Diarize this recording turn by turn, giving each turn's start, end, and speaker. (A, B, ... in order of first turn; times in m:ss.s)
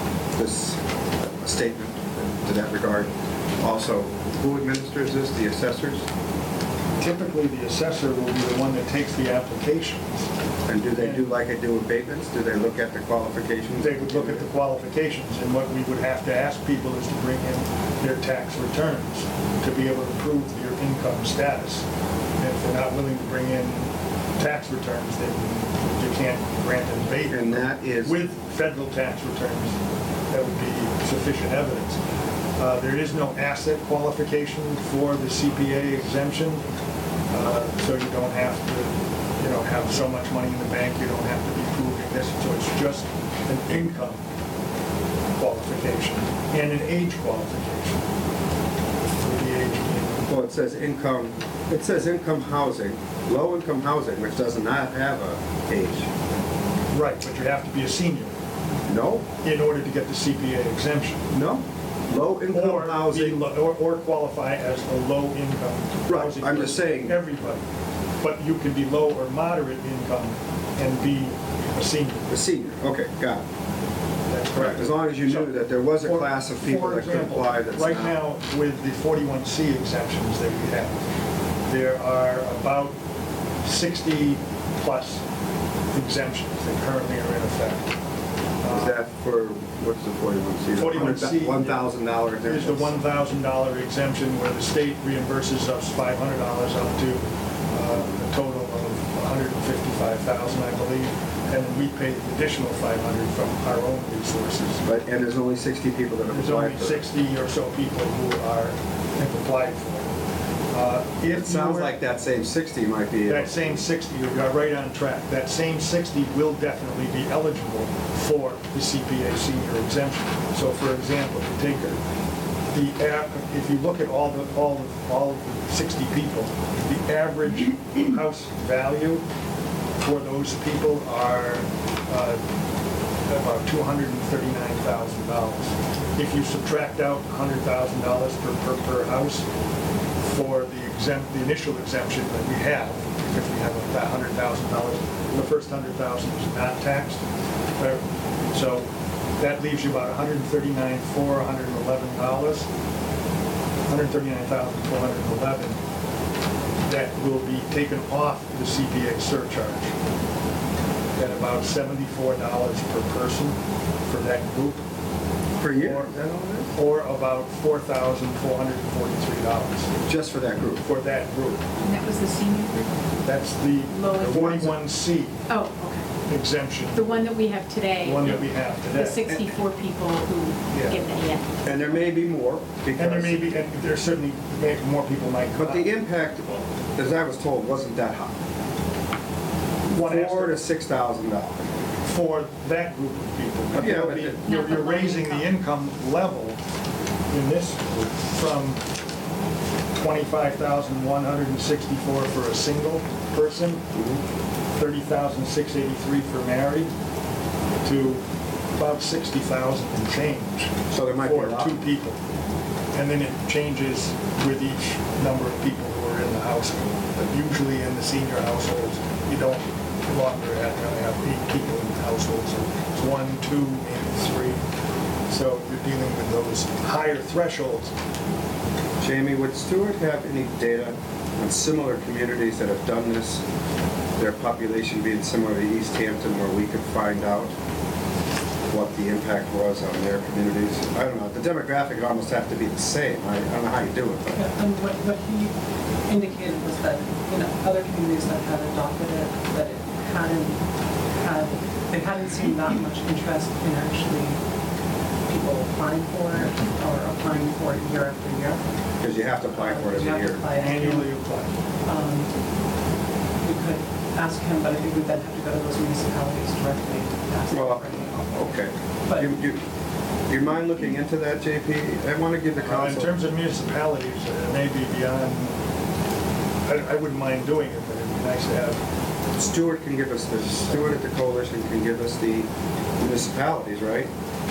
0:00.4-0:06.1 A
0:07.0-0:10.2 B
0:10.7-0:14.5 A
0:11.0-0:11.3 B
0:13.8-0:21.8 B
0:22.4-0:29.8 B
0:27.3-0:28.2 A
0:30.3-0:32.0 B
0:32.6-0:36.6 B
0:37.3-0:44.2 B
0:45.4-0:48.0 B
0:49.2-0:50.2 B
0:50.3-0:56.1 A
0:56.9-0:58.3 B
0:58.8-0:59.2 A
0:59.4-1:01.2 B
1:01.3-1:03.5 A
1:02.5-1:07.6 B
1:06.1-1:07.2 A
1:08.2-1:12.3 B
1:12.3-1:13.4 A
1:14.3-1:15.5 B
1:14.5-1:18.1 A
1:16.0-1:21.0 B
1:21.7-1:23.0 B
1:23.6-1:25.2 B
1:25.9-1:27.9 B
1:28.6-1:29.0 B
1:28.7-1:33.0 A
1:30.8-1:31.8 B
1:32.4-1:44.8 B
1:44.8-1:47.0 A
1:46.3-1:50.1 B
1:50.7-1:52.0 B
1:51.3-1:53.8 A
1:53.3-2:02.0 B
2:02.7-2:09.2 B
2:10.0-2:12.4 B
2:13.3-2:19.4 B
2:20.2-2:27.2 B
2:28.5-2:28.8 B
2:29.4-2:32.7 B
2:33.9-2:35.8 B
2:36.8-2:39.9 B
2:41.2-2:43.6 B
2:44.1-2:44.8 B
2:45.6-2:46.7 A
2:45.7-2:46.1 B
2:46.7-2:49.9 B
2:50.0-2:50.8 A
2:50.8-2:51.6 B
2:51.8-2:53.0 C
2:53.2-2:55.4 B
2:53.9-2:54.6 C
2:54.2-2:54.8 A
2:55.5-2:56.0 C
2:56.3-2:57.3 B
2:56.9-2:58.3 C
2:58.0-2:59.2 B
2:58.9-3:01.7 C
3:00.7-3:01.0 B
3:01.6-3:03.5 A
3:03.0-3:05.9 B
3:05.6-3:08.4 A
3:09.9-3:10.6 B
3:10.0-3:11.7 A
3:12.0-3:16.6 B
3:13.7-3:14.4 A
3:14.3-3:15.5 C
3:17.3-3:18.8 B
3:20.0-3:23.8 B
3:23.9-3:24.2 A
3:24.8-3:26.9 B
3:27.8-3:28.2 B
3:28.8-3:32.2 B
3:30.9-3:31.8 A
3:32.9-3:44.6 B
3:45.3-3:47.9 B
3:49.0-3:53.4 A
3:54.2-3:57.5 A
3:58.7-4:04.4 A
4:04.3-4:05.5 D
4:06.0-4:10.6 D
4:11.1-4:14.4 D
4:15.3-4:18.6 D
4:19.0-4:20.4 A
4:19.5-4:21.1 D
4:20.6-4:21.5 B
4:21.8-4:22.3 D
4:23.4-4:28.4 D
4:27.5-4:29.6 A
4:30.3-4:33.1 A
4:32.6-4:35.5 B
4:36.6-4:38.8 B
4:39.4-4:44.1 A